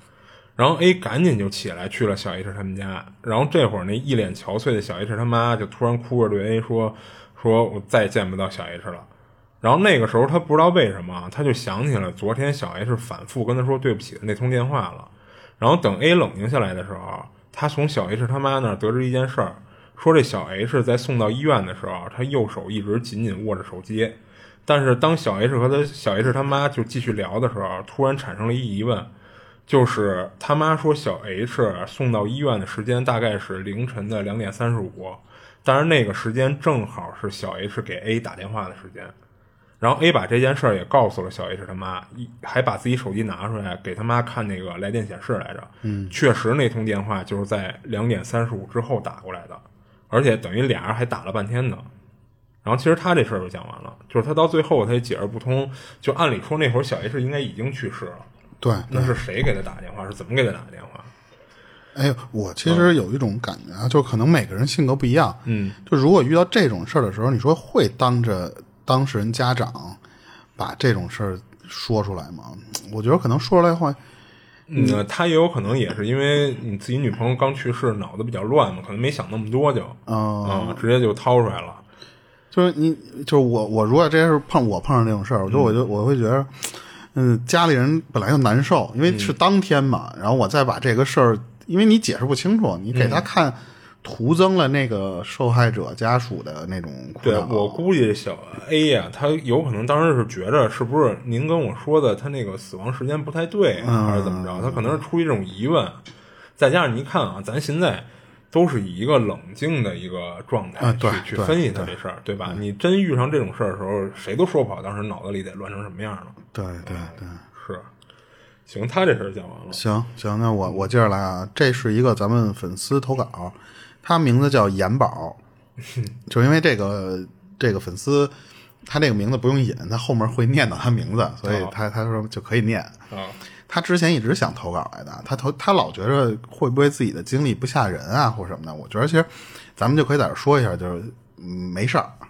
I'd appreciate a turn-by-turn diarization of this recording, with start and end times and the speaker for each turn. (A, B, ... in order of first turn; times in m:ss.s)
0:00.6-0:09.1 A
0:09.6-0:29.1 A
0:29.7-0:39.1 A
0:39.8-0:51.9 A
0:45.8-0:46.1 B
0:52.6-0:58.2 A
0:58.6-0:59.2 B
0:58.9-1:01.1 A
1:01.9-1:10.0 B
1:02.6-1:02.9 A
1:05.4-1:05.8 A
1:10.6-1:14.0 B
1:14.7-1:21.8 A
1:14.7-1:15.0 B
1:20.1-1:20.8 B
1:22.5-1:37.8 B
1:25.5-1:25.7 A
1:29.1-1:29.3 A
1:32.9-1:33.2 A
1:37.2-1:46.0 A
1:43.8-1:45.0 B
1:46.6-1:56.4 A
1:50.8-1:51.9 B
1:56.5-1:57.4 B
1:56.9-1:57.9 A
1:58.7-1:59.8 A
1:59.7-2:05.4 B
2:06.3-2:08.3 B
2:08.8-2:13.0 B
2:11.4-2:11.7 A
2:13.1-2:13.4 A
2:13.7-2:22.2 B